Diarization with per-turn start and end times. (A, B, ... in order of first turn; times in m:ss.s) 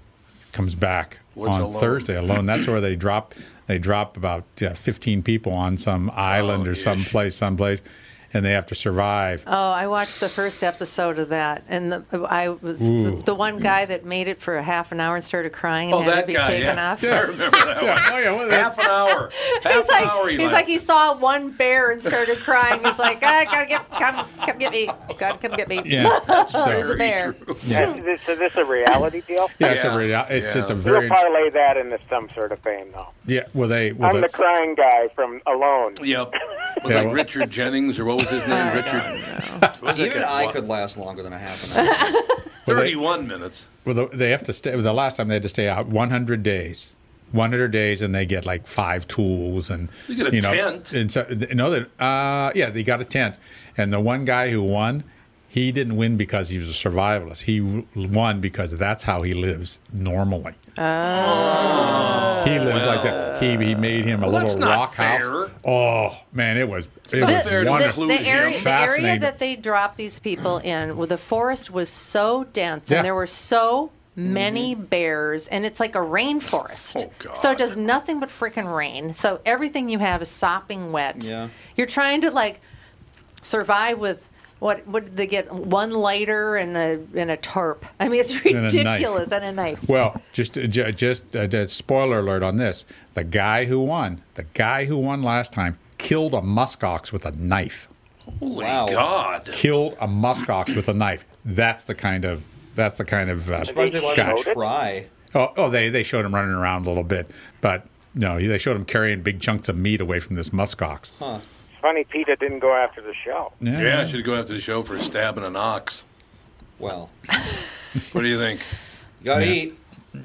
0:00.5-0:09.4 A
0:01.4-0:02.1 B
0:06.3-0:07.2 B
0:09.5-0:17.3 C
0:12.8-0:13.3 A
0:15.9-0:20.7 B
0:17.0-0:18.8 A
0:19.1-0:28.0 C
0:25.8-0:27.0 A
0:26.0-0:27.8 B
0:27.6-0:27.9 A
0:27.7-0:29.6 D
0:29.6-0:31.2 A
0:29.6-0:30.8 B
0:30.8-0:33.1 D
0:33.3-0:34.3 A
0:34.0-0:36.0 D
0:36.0-0:39.2 B
0:36.8-0:37.2 A
0:38.5-0:39.6 C
0:38.5-0:39.2 E
0:39.8-0:40.6 B
0:39.8-0:42.1 E
0:42.7-0:43.0 A
0:42.7-0:43.7 B
0:43.8-1:00.6 A
0:50.1-0:50.9 B
1:00.8-1:03.8 C
1:01.1-1:03.4 B
1:01.4-1:02.4 E
1:02.4-1:09.3 A
1:04.2-1:05.5 B
1:07.1-1:08.7 B
1:07.2-1:22.6 C
1:14.2-1:14.7 E
1:16.9-1:17.7 B
1:21.2-1:21.6 E
1:23.4-1:29.9 C
1:28.5-1:29.2 A
1:29.9-1:37.9 A
1:38.4-1:39.6 B
1:38.5-1:39.1 E
1:39.5-1:44.4 A
1:43.6-1:44.6 D
1:43.7-1:45.1 E
1:45.3-1:51.1 A
1:51.2-1:51.4 E
1:51.8-1:53.5 D
1:53.6-1:54.2 A
1:53.8-1:56.0 B
1:56.8-1:57.1 E
1:58.1-1:58.7 B
1:59.2-1:59.8 E
1:59.3-1:59.6 A